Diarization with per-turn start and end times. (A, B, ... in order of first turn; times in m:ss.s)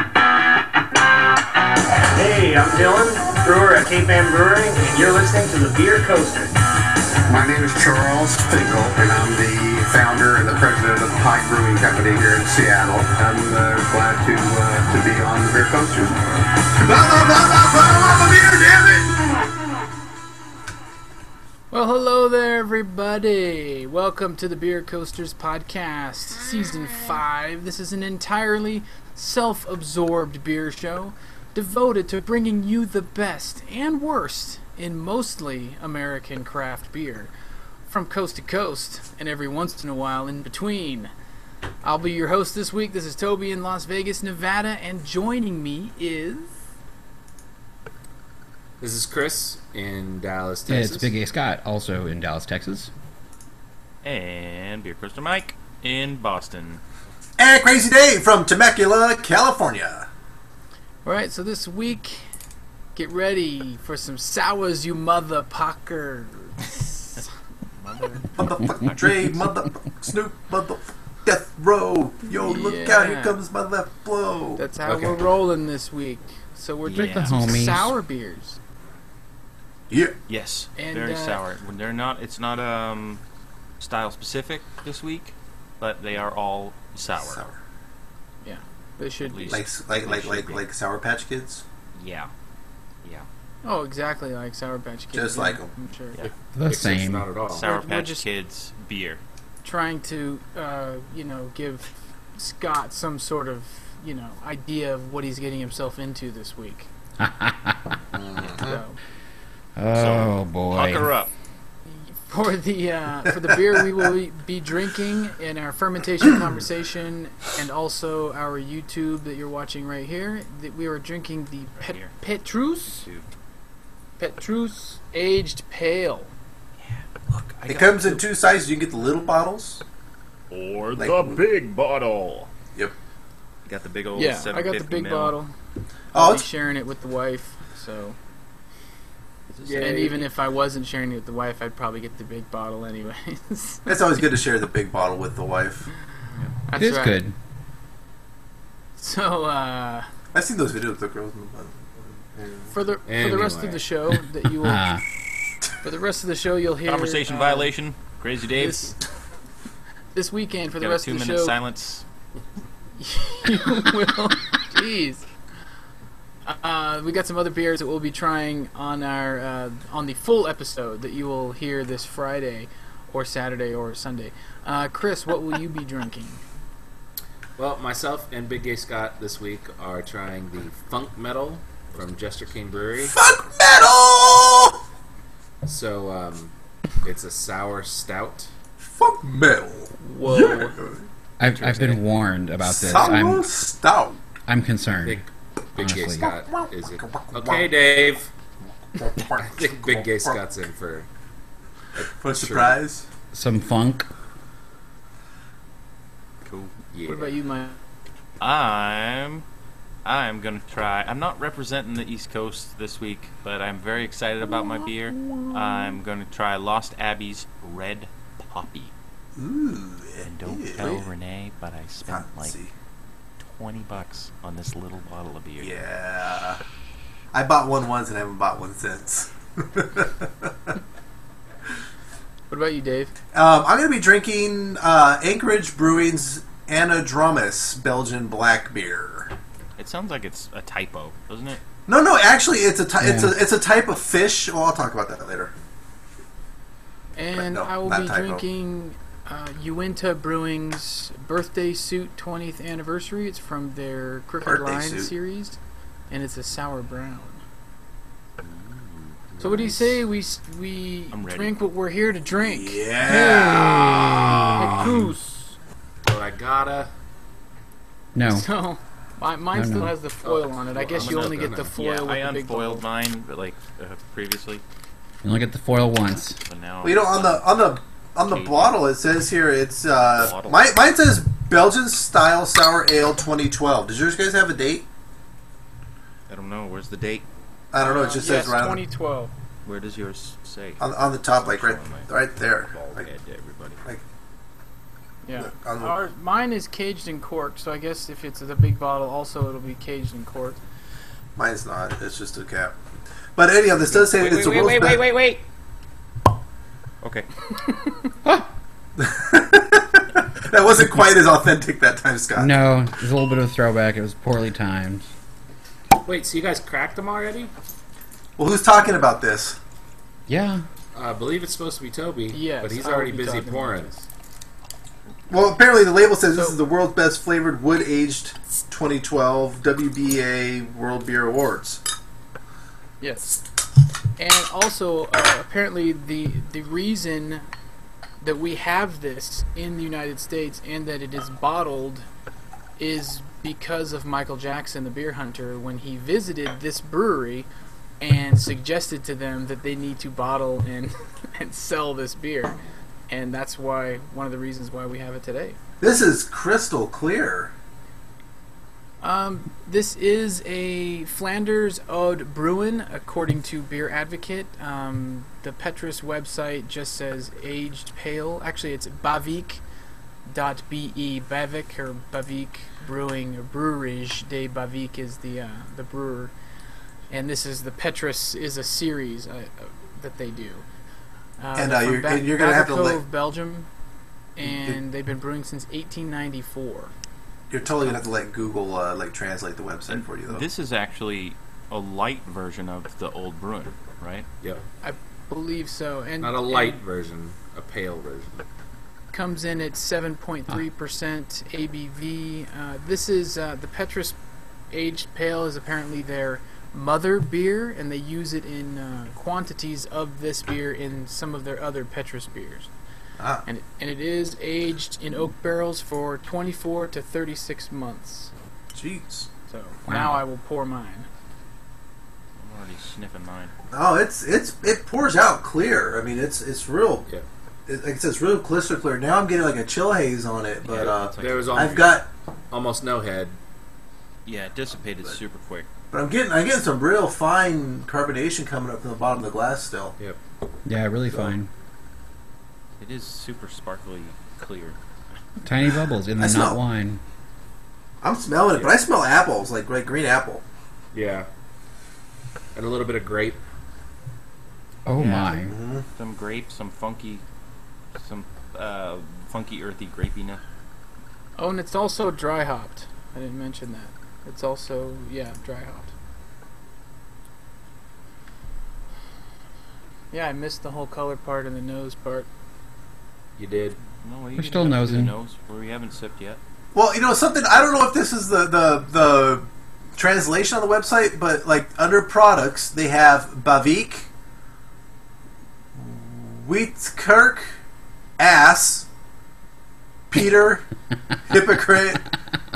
0:02.1-0:06.5 A
0:07.4-0:15.9 B
0:16.8-0:19.1 C
0:21.7-0:37.3 D
0:37.9-0:41.1 D
0:41.8-0:46.6 D
0:48.8-0:51.1 E
0:50.7-0:52.9 F
0:54.0-0:56.8 G
0:57.4-1:00.1 C
1:01.0-1:02.3 D
1:03.0-1:07.2 D
1:07.8-1:09.1 G
1:08.4-1:14.6 C
1:12.4-1:13.4 D
1:14.6-1:18.6 D
1:14.9-1:15.2 F
1:16.8-1:18.0 F
1:16.9-1:17.5 G
1:19.9-1:20.2 C
1:20.3-1:23.2 G
1:20.8-1:21.4 D
1:23.8-1:27.4 G
1:27.1-1:27.6 C
1:28.4-1:29.7 D
1:29.2-1:30.6 G
1:29.5-1:31.6 C
1:32.0-1:32.3 G
1:33.6-1:36.2 D
1:35.1-1:35.7 C
1:36.2-1:37.6 E
1:36.5-1:37.2 F
1:37.5-1:38.3 D
1:37.6-1:39.2 G
1:39.6-1:46.9 D
1:47.2-1:47.8 F
1:48.1-1:48.8 C
1:48.4-1:48.6 G
1:48.6-1:49.0 D
1:49.8-1:51.1 F
1:49.9-1:51.3 G
1:51.8-2:03.0 D
1:53.5-1:53.8 C
1:56.2-1:56.6 C
2:01.8-2:02.1 G
2:02.9-2:03.3 G
2:04.2-2:06.3 D
2:06.8-2:08.2 G
2:07.7-2:09.8 C
2:10.5-2:12.5 G
2:11.0-2:11.4 C
2:13.7-2:15.4 G
2:14.1-2:15.5 D
2:16.1-2:18.2 D
2:16.1-2:16.4 C
2:19.5-2:20.1 G
2:19.6-2:20.3 E
2:19.8-2:23.8 D
2:23.8-2:25.9 C
2:26.7-2:27.2 D
2:26.7-2:27.3 F
2:29.0-2:30.0 D
2:30.3-2:32.7 C
2:32.7-2:34.9 D
2:33.0-2:33.8 E
2:34.6-2:35.0 F
2:35.8-2:37.7 D
2:36.8-2:38.9 G
2:38.6-2:39.4 D
2:40.1-2:41.6 D
2:40.8-2:42.0 G
2:43.0-2:45.3 D
2:46.4-2:56.4 D
2:57.6-3:03.1 E
3:03.0-3:04.8 C
3:05.6-3:08.5 E
3:08.8-3:11.1 C
3:10.0-3:10.8 D
3:11.4-3:13.5 F
3:11.4-3:12.0 G
3:12.6-3:14.2 C
3:14.5-3:15.2 F
3:15.0-3:18.3 E
3:15.8-3:16.3 F
3:16.3-3:17.7 C
3:18.9-3:20.4 C
3:19.3-3:21.1 E
3:21.9-3:22.8 E
3:22.1-3:23.1 C
3:23.3-3:24.1 F
3:26.4-3:26.7 G
3:26.9-3:27.4 E
3:27.1-3:27.8 D
3:28.4-3:29.4 G
3:30.0-3:38.9 G
3:34.6-3:36.0 C
3:39.4-3:41.0 C
3:40.2-3:42.6 G
3:40.8-3:41.0 D
3:42.0-3:42.7 C
3:43.4-3:45.8 G
3:45.6-3:46.6 C
3:47.3-3:50.7 C
3:52.5-3:53.1 D
3:53.3-3:59.3 C
3:59.8-4:01.6 G
4:01.9-4:05.5 C
4:03.0-4:03.4 F
4:07.2-4:15.6 D
4:07.3-4:08.4 C
4:14.4-4:15.1 C
4:16.1-4:17.4 D
4:18.4-4:19.2 G
4:19.4-4:20.0 E
4:19.4-4:23.7 D
4:21.1-4:21.5 G
4:22.4-4:25.0 C
4:23.0-4:24.7 F
4:24.6-4:25.3 D
4:26.0-4:26.9 E
4:28.2-4:28.5 F
4:28.3-4:32.8 D
4:29.5-4:29.9 F
4:30.2-4:31.8 E
4:31.0-4:34.6 G
4:35.2-4:36.4 F
4:36.4-4:38.8 G
4:36.8-4:44.9 C
4:40.0-4:40.7 G
4:46.3-4:47.2 G
4:47.7-4:48.8 C
4:47.8-4:49.3 D
4:49.6-4:53.8 G
4:50.8-4:53.1 C
4:55.2-5:00.6 D
4:55.4-4:55.9 C
5:01.4-5:02.8 C
5:03.4-5:05.1 C
5:03.7-5:05.2 E
5:07.0-5:07.3 G
5:07.6-5:08.0 D
5:09.0-5:12.6 C
5:12.4-5:15.1 F
5:16.0-5:17.5 E
5:18.4-5:19.6 C
5:20.3-5:20.6 F
5:20.9-5:23.9 E
5:22.3-5:24.1 D
5:25.3-5:31.8 C
5:33.0-5:33.4 D
5:34.2-5:37.5 D
5:38.2-5:42.1 D
5:42.8-5:47.5 D
5:48.0-5:52.6 D
5:53.1-5:55.6 D
5:55.8-5:57.5 C
5:59.0-6:09.6 D
6:10.2-6:16.3 D
6:17.1-6:20.7 D
6:21.4-6:23.7 D
6:21.6-6:23.0 C
6:24.4-6:26.9 D
6:24.4-6:24.8 C
6:27.5-6:30.5 C
6:29.9-6:34.3 G
6:34.8-6:36.8 D
6:36.2-6:38.4 E
6:39.1-6:44.2 D
6:44.7-6:52.7 D
6:53.2-6:53.4 C
6:53.4-6:58.3 D
6:58.7-6:59.3 C
6:59.5-7:01.1 D
6:59.9-7:00.2 F
7:02.4-7:03.5 G
7:03.7-7:07.1 C
7:07.7-7:12.1 C
7:10.6-7:11.9 G
7:10.7-7:13.4 E
7:14.2-7:15.7 G
7:15.9-7:20.0 C
7:20.6-7:21.5 F
7:21.1-7:21.4 E
7:22.8-7:24.8 G
7:25.4-7:27.0 F
7:25.7-7:26.6 C
7:28.0-7:30.4 C
7:28.5-7:28.8 E
7:30.9-7:31.3 E
7:32.6-7:33.4 E
7:34.9-7:35.6 F
7:34.9-7:37.2 G
7:35.5-7:35.9 C
7:37.9-7:40.4 G
7:41.4-7:45.9 D
7:50.1-7:52.3 D
7:53.4-7:53.8 E
7:54.0-7:56.4 G
7:54.4-7:55.1 F
7:56.7-8:04.1 C
8:05.8-8:07.5 C
8:08.2-8:08.9 C
8:10.1-8:10.6 C
8:11.3-8:12.1 C